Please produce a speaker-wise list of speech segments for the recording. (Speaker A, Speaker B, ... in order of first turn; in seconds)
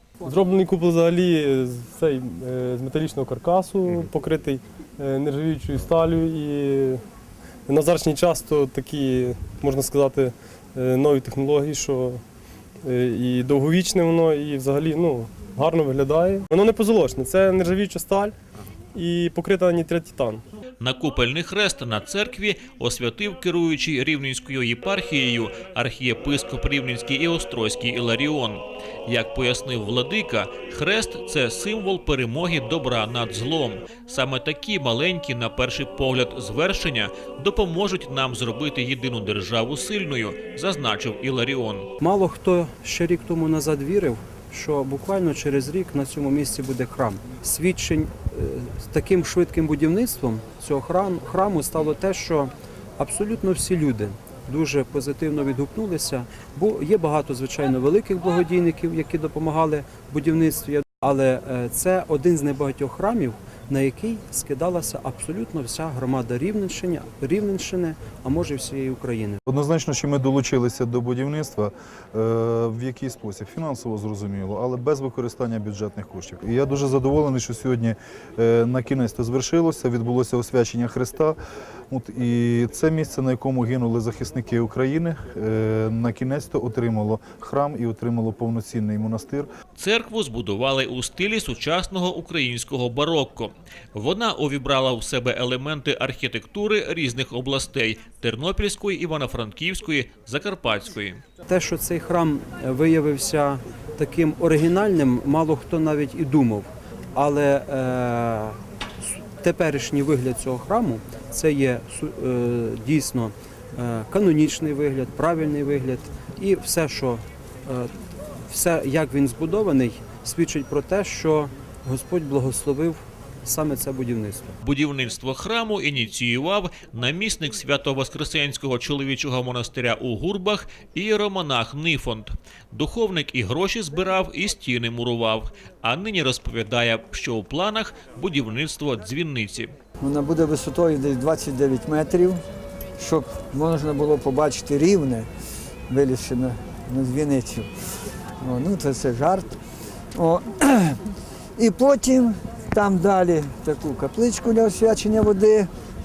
Speaker A: 0.2-7.0, 7.7-12.2, 12.8-18.3, 18.9-20.4
Speaker B: 20.8-41.9, 89.8-101.2, 124.6-139.7
Speaker C: 42.0-69.4, 101.5-117.9, 118.5-124.6
Speaker D: 69.5-89.5
Speaker E: 140.0-142.4, 143.0-145.3, 145.9-147.7, 148.4-149.6, 150.1-151.0, 151.6-155.7